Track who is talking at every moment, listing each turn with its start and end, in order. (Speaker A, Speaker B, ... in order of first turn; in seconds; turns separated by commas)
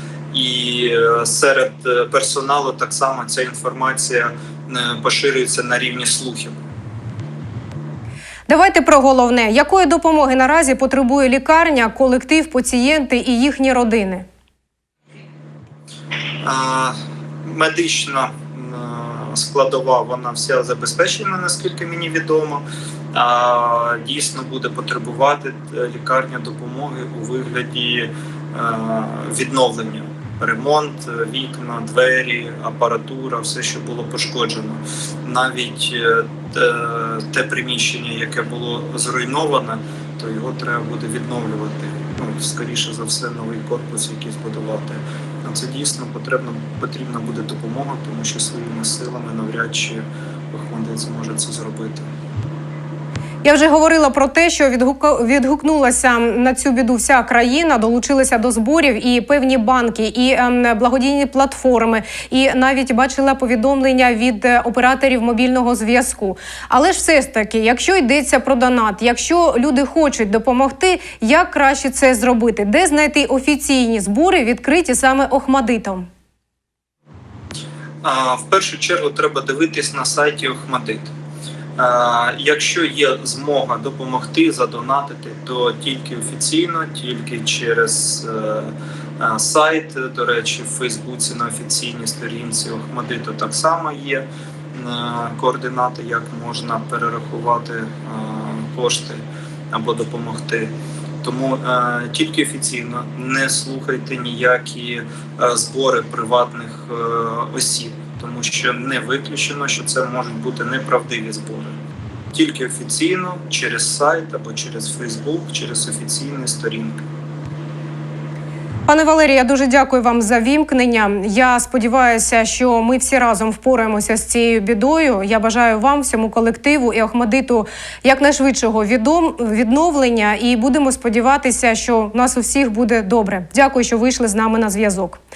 Speaker A: 0.3-6.5, Speaker B: 8.5-14.2, Speaker A: 16.4-52.1, Speaker B: 53.4-76.1, Speaker A: 78.0-81.1, Speaker A: 81.8-111.8, Speaker A: 112.3-117.0, Speaker B: 118.9-135.2